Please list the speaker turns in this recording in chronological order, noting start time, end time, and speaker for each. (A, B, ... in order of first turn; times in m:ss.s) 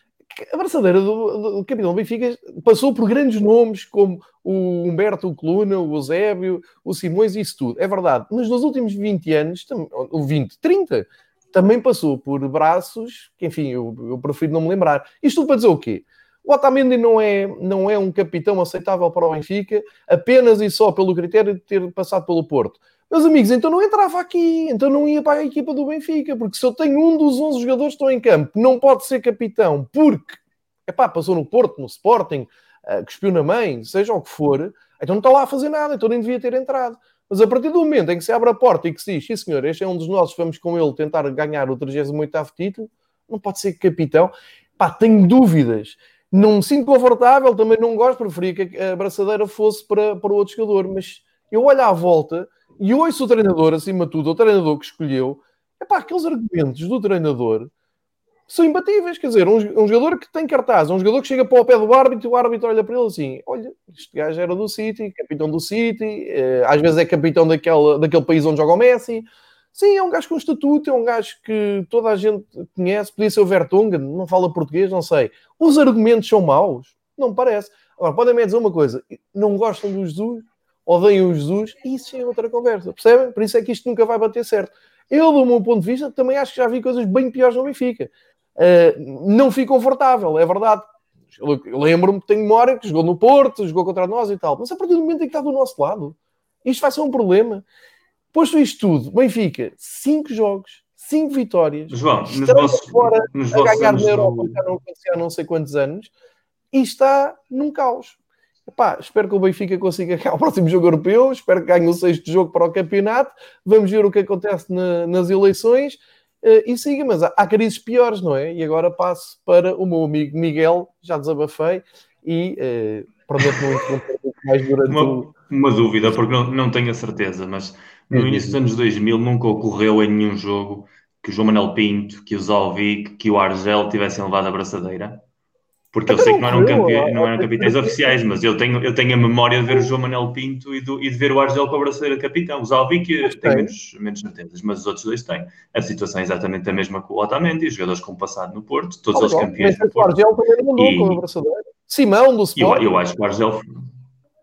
0:00.3-0:57.7 A
0:58.5-1:37.6 A
1:38.3-1:46.1 A
1:41.9-1:44.6 B
1:46.7-1:48.2 A
1:48.7-2:05.3 A
2:04.9-2:15.2 B
2:08.1-2:08.6 A
2:15.9-2:30.2 B
2:16.1-2:18.2 A
2:23.2-2:23.7 A
2:29.1-2:32.9 A
2:30.8-2:31.2 B
2:32.6-2:33.9 B